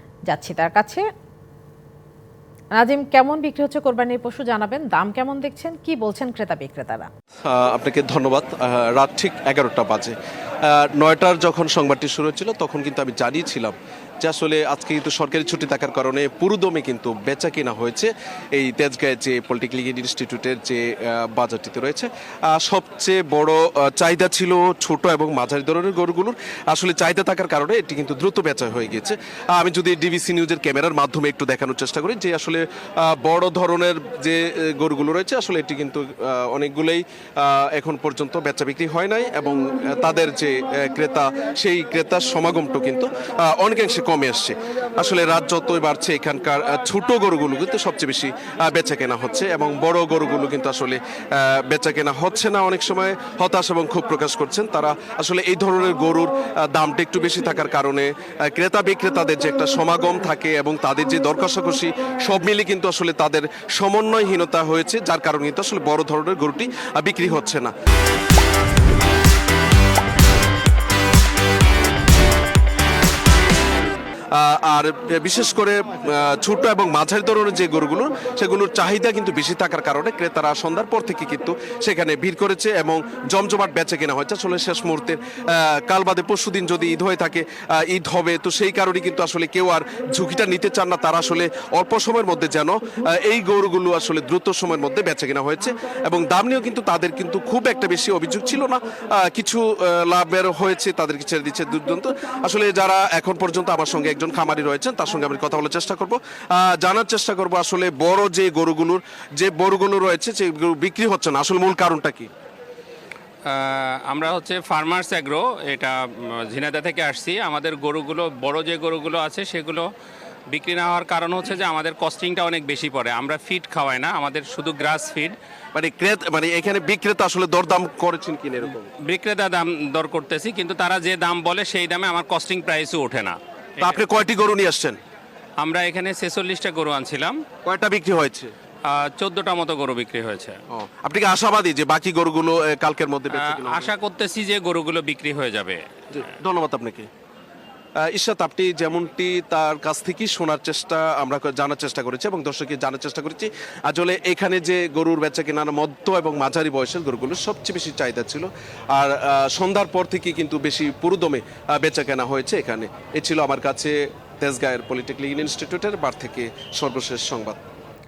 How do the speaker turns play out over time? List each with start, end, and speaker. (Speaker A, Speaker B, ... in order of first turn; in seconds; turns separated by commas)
Speaker A: 0.3-1.0, Speaker A: 2.8-7.1, Speaker B: 7.4-67.7, Speaker B: 74.3-112.3, Speaker C: 113.4-119.9, Speaker C: 120.5-125.4, Speaker B: 125.7-128.9, Speaker C: 129.0-134.0, Speaker B: 133.8-135.0, Speaker C: 135.6-137.4, Speaker B: 137.6-138.5, Speaker C: 138.8-140.6, Speaker B: 140.7-143.9, Speaker C: 143.3-145.8, Speaker B: 146.1-147.1, Speaker B: 148.0-167.6